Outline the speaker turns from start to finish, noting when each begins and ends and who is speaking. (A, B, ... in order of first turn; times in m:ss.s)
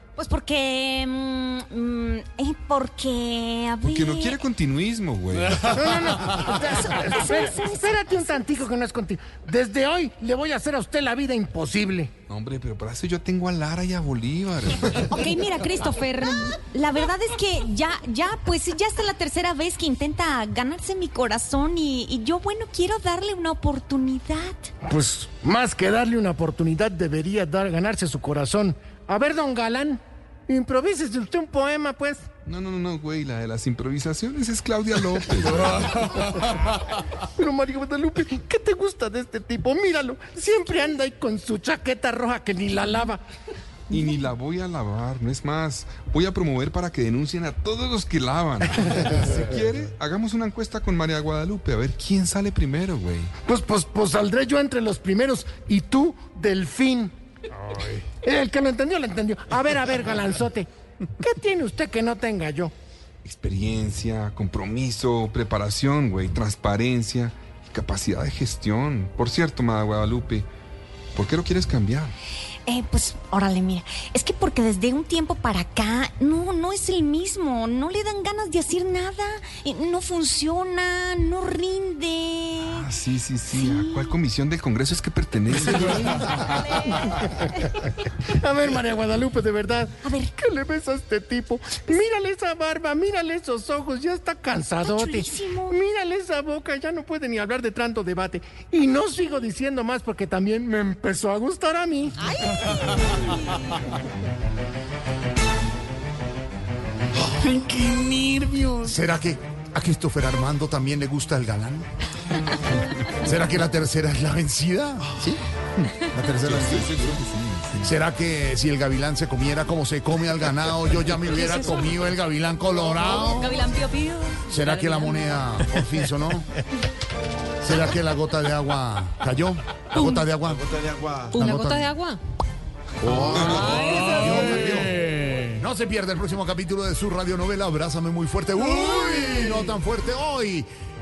0:00.2-0:04.4 A
0:03.8-0:05.8 B
0:05.6-0:12.1 C
0:07.0-0:07.9 A
0:12.3-0:15.3 B
0:15.0-0:24.7 A
0:24.8-0:32.2 C
0:32.4-0:36.3 B
0:36.4-0:36.8 C
0:37.4-0:43.2 C
0:43.9-0:53.3 B
0:53.4-0:57.1 C
0:58.2-1:00.7 C
1:01.2-1:02.7 C
1:03.2-1:10.5 B
1:11.1-1:12.1 B
1:12.7-1:22.8 A
1:22.6-1:26.4 B
1:23.5-1:24.2 A
1:25.8-1:26.9 A
1:26.9-1:42.2 C
1:30.0-1:30.3 A
1:34.8-1:35.8 A
1:42.2-1:42.6 A
1:47.3-1:48.9 D
1:48.8-1:51.9 E
1:53.0-1:55.4 E
1:55.9-1:57.0 E
1:56.4-1:57.9 B
1:57.8-2:03.7 E
2:01.4-2:01.7 F
2:02.9-2:05.6 F
2:04.5-2:06.5 E
2:07.6-2:10.7 E
2:10.6-2:11.4 G
2:11.3-2:12.0 E
2:11.3-2:12.2 F
2:13.0-2:14.5 G
2:13.1-2:15.0 E
2:13.4-2:15.6 D
2:13.6-2:14.4 F
2:15.5-2:20.7 E